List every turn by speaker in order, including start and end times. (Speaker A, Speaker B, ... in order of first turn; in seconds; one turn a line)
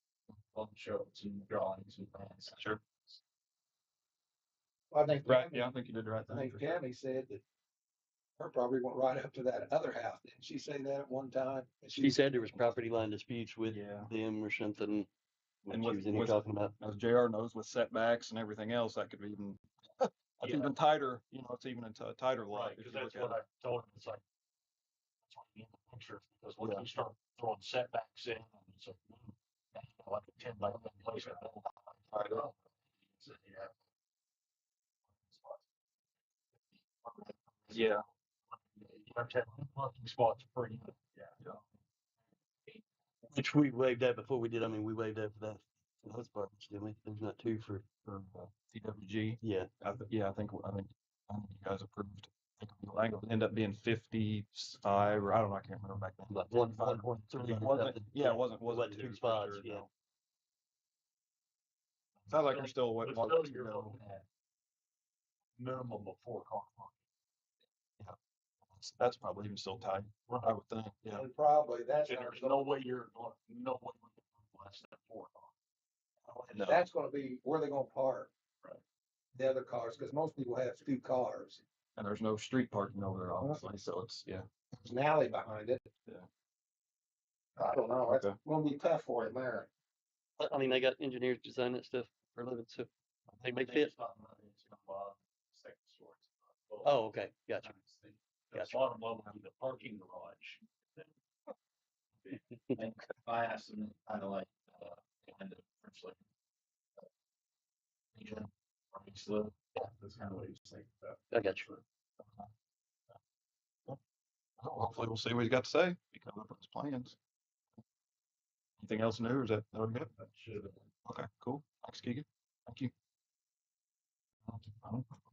Speaker A: 0.4-3.2
Speaker B: 2.5-2.8
Speaker C: 4.9-5.7
Speaker B: 5.2-6.8
Speaker C: 6.3-7.4
Speaker C: 8.4-12.7
Speaker D: 12.0-15.1
Speaker B: 13.7-14.1
Speaker D: 15.7-16.7
Speaker B: 15.7-23.4
Speaker A: 22.5-24.2
Speaker A: 25.3-33.8
Speaker B: 26.6-26.9
Speaker B: 32.1-32.5
Speaker A: 35.2-35.6
Speaker A: 37.0-37.9
Speaker B: 37.7-38.0
Speaker A: 38.5-41.4
Speaker D: 43.3-47.9
Speaker B: 48.0-56.5
Speaker D: 49.4-49.7
Speaker D: 56.3-59.8
Speaker A: 56.7-57.7
Speaker B: 57.4-59.9
Speaker A: 62.2-64.2
Speaker B: 62.3-64.0
Speaker A: 65.6-66.9
Speaker B: 68.7-71.2
Speaker A: 70.3-70.5
Speaker C: 71.1-72.6
Speaker A: 72.0-75.5
Speaker A: 76.2-76.5
Speaker B: 76.5-76.8
Speaker C: 76.6-78.3
Speaker C: 79.3-81.6
Speaker B: 82.0-84.5
Speaker C: 84.7-85.9
Speaker C: 87.6-89.7
Speaker B: 88.1-88.4
Speaker D: 90.4-93.9
Speaker A: 93.6-101.1
Speaker D: 96.8-97.7
Speaker D: 98.5-98.8
Speaker A: 102.2-106.2
Speaker D: 102.3-102.8
Speaker A: 108.2-111.8
Speaker D: 111.3-111.7
Speaker B: 112.2-112.5
Speaker B: 114.6-117.2
Speaker B: 118.8-120.1
Speaker A: 120.2-120.8
Speaker B: 121.0-122.9
Speaker B: 124.7-125.2